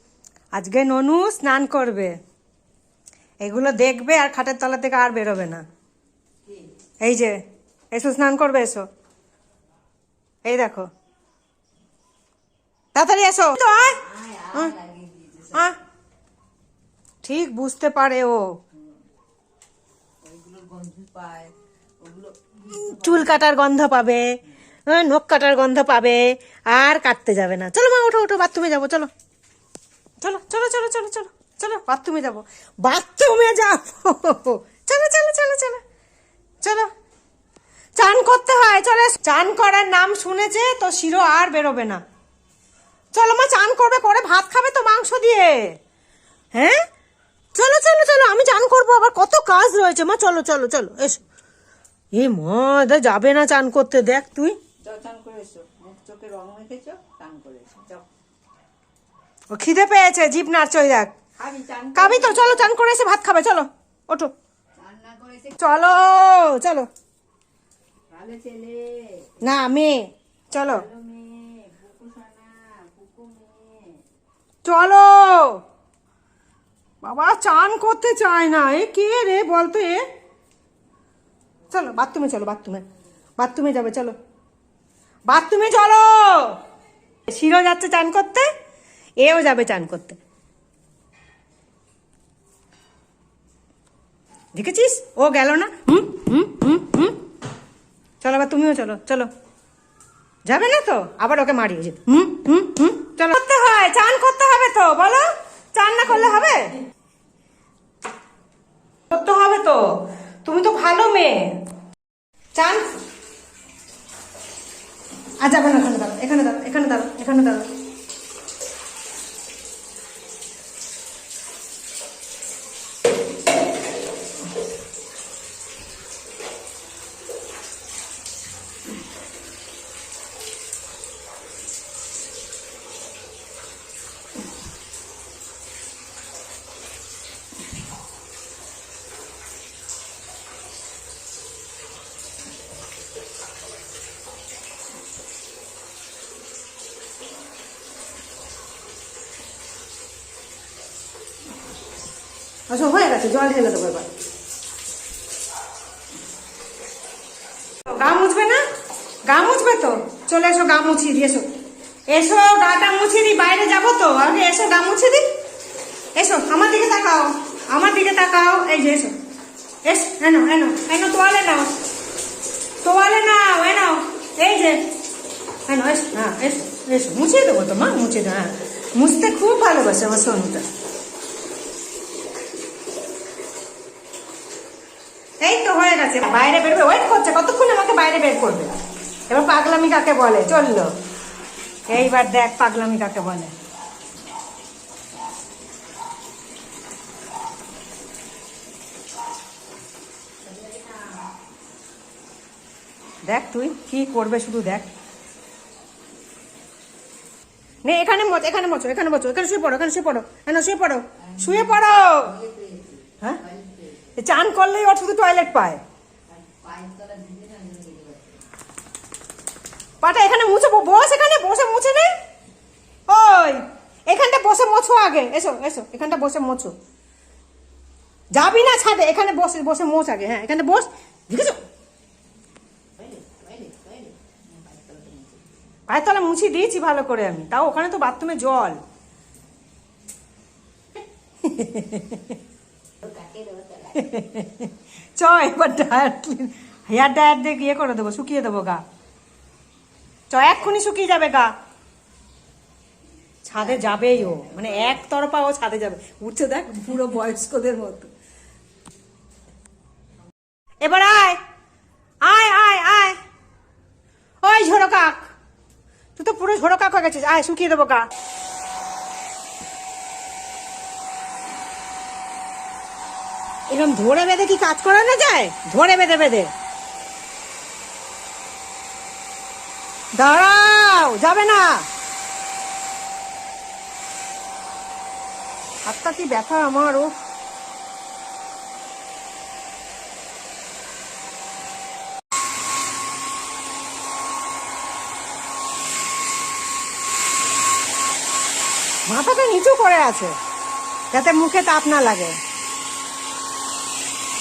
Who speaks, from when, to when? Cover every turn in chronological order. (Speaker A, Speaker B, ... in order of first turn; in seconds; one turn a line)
Speaker A: 0.5-2.1
Speaker A: 3.4-5.6
Speaker A: 7.0-7.4
Speaker A: 7.9-8.9
Speaker A: 10.4-10.9
Speaker A: 12.9-14.8
Speaker B: 14.1-15.7
Speaker A: 15.5-15.8
Speaker A: 17.2-18.5
Speaker B: 20.2-23.3
Speaker A: 22.6-29.1
Speaker A: 30.2-35.8
Speaker A: 36.6-36.9
Speaker A: 38.0-42.0
Speaker A: 43.1-45.8
Speaker A: 46.5-46.9
Speaker A: 47.5-51.2
Speaker A: 52.1-54.6
Speaker B: 54.8-58.1
Speaker A: 59.5-61.1
Speaker B: 61.4-62.7
Speaker A: 62.0-64.3
Speaker B: 64.8-65.6
Speaker A: 65.5-66.9
Speaker B: 68.1-69.4
Speaker A: 69.4-70.9
Speaker B: 70.7-74.0
Speaker A: 74.6-75.6
Speaker A: 77.0-80.1
Speaker A: 81.7-82.9
Speaker A: 83.4-84.2
Speaker A: 85.3-86.6
Speaker A: 87.3-88.5
Speaker A: 89.2-90.2
Speaker A: 94.5-97.2
Speaker A: 98.2-99.3
Speaker A: 100.5-106.8
Speaker A: 109.1-111.6
Speaker A: 112.5-112.9
Speaker A: 115.4-117.7
Speaker A: 152.7-154.1
Speaker A: 157.9-158.6
Speaker A: 159.2-161.5
Speaker A: 162.1-165.3
Speaker A: 166.2-169.2
Speaker A: 169.8-171.8
Speaker A: 172.8-174.9
Speaker A: 175.7-180.7
Speaker A: 185.4-188.8
Speaker A: 189.3-190.9
Speaker A: 191.9-193.5
Speaker B: 200.5-201.0
Speaker A: 203.2-204.9
Speaker A: 207.8-212.3
Speaker B: 211.3-214.1
Speaker A: 214.2-215.8
Speaker B: 216.3-218.4
Speaker A: 220.0-222.2
Speaker A: 223.1-226.7
Speaker A: 228.3-231.6
Speaker B: 233.0-235.4
Speaker A: 235.9-238.8
Speaker A: 241.4-242.4
Speaker B: 243.0-244.1
Speaker A: 243.9-248.8
Speaker A: 250.3-251.5
Speaker A: 253.4-258.1
Speaker B: 253.8-254.7
Speaker A: 260.8-261.4
Speaker A: 262.2-263.2
Speaker A: 264.4-265.3
Speaker A: 266.2-268.1
Speaker A: 273.7-276.5
Speaker A: 280.1-281.9
Speaker A: 285.9-287.1
Speaker A: 299.1-300.4
Speaker A: 301.1-302.4